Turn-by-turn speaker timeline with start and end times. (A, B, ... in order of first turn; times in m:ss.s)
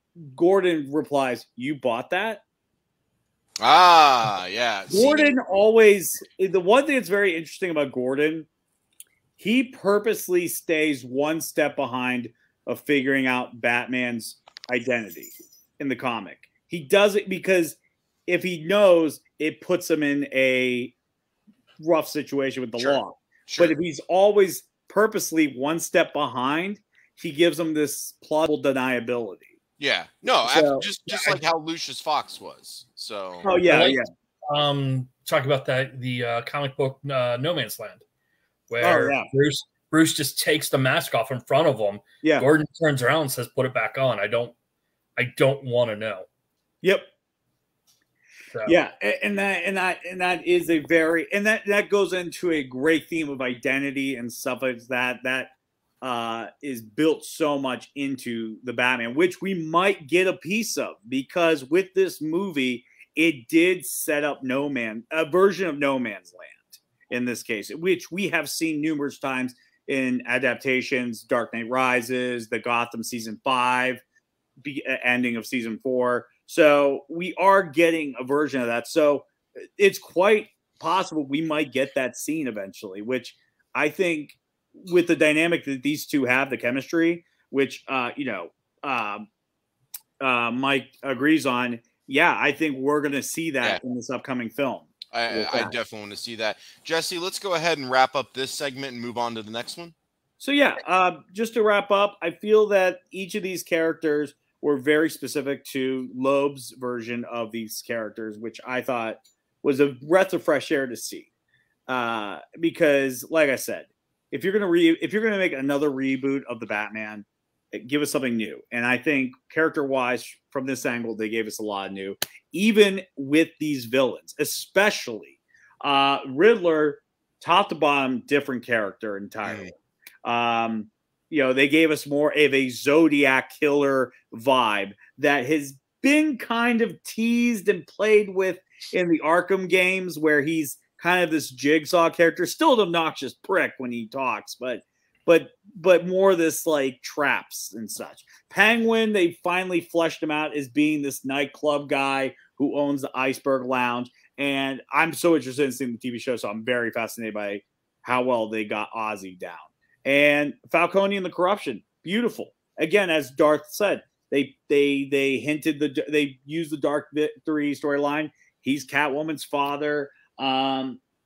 0:00.2-0:02.4 A
0:03.6-0:05.3 B
0:04.9-0:08.5 A
0:09.4-0:20.9 A
0:21.8-0:29.5 A
0:22.8-0:23.8 B
0:29.8-0:33.5 B
0:30.4-0:31.4 A
0:33.4-0:34.1 A
0:33.6-0:38.0 C
0:38.7-0:44.5 C
0:38.8-0:39.3 A
0:45.2-0:46.3 C
0:46.8-0:47.1 A
0:48.5-0:48.8 C
0:48.6-1:14.0 A
1:14.6-1:29.3 A
1:30.2-1:35.7 A
1:35.1-1:39.9 B
1:40.4-1:51.3 A
1:51.9-2:09.7 A
2:09.4-2:09.7 B
2:10.2-2:51.0 A